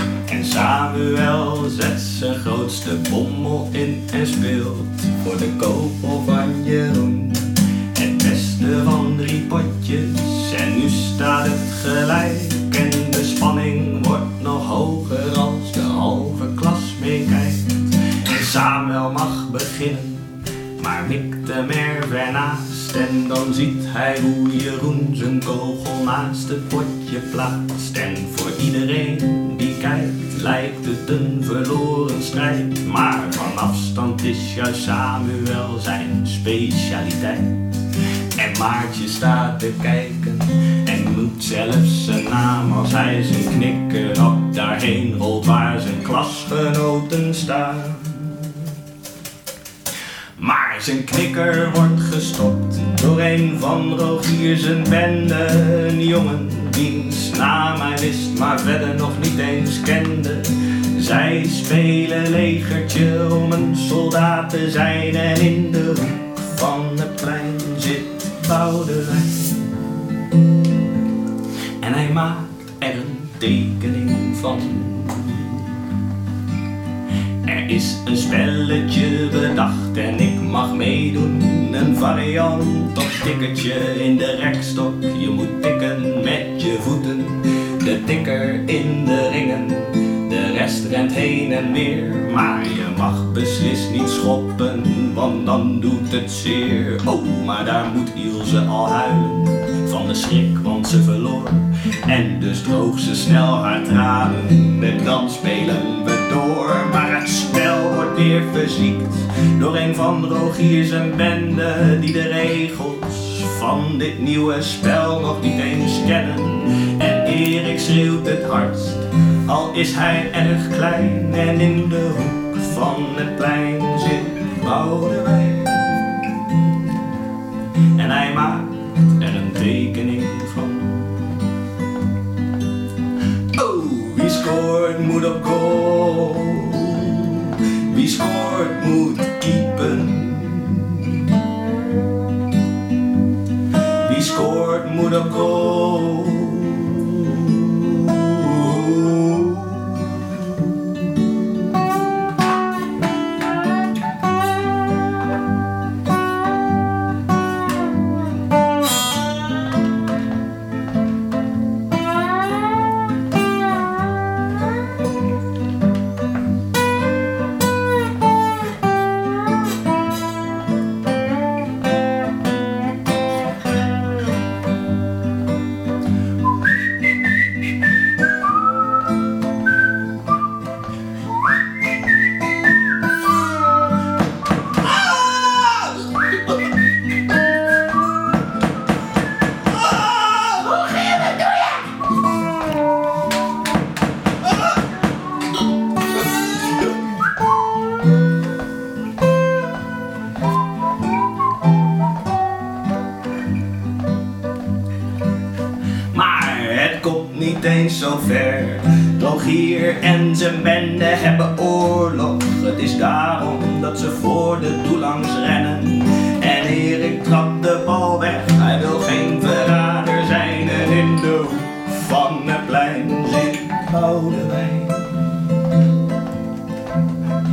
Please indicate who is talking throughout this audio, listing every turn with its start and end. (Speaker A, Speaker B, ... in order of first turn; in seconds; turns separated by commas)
Speaker A: 0.2-48.7, Speaker A: 50.4-69.7, Speaker A: 71.8-75.7, Speaker A: 77.4-127.0, Speaker A: 127.9-131.4, Speaker A: 133.5-141.2, Speaker A: 144.0-151.3, Speaker A: 184.9-186.1, Speaker A: 189.8-191.7, Speaker A: 206.1-225.4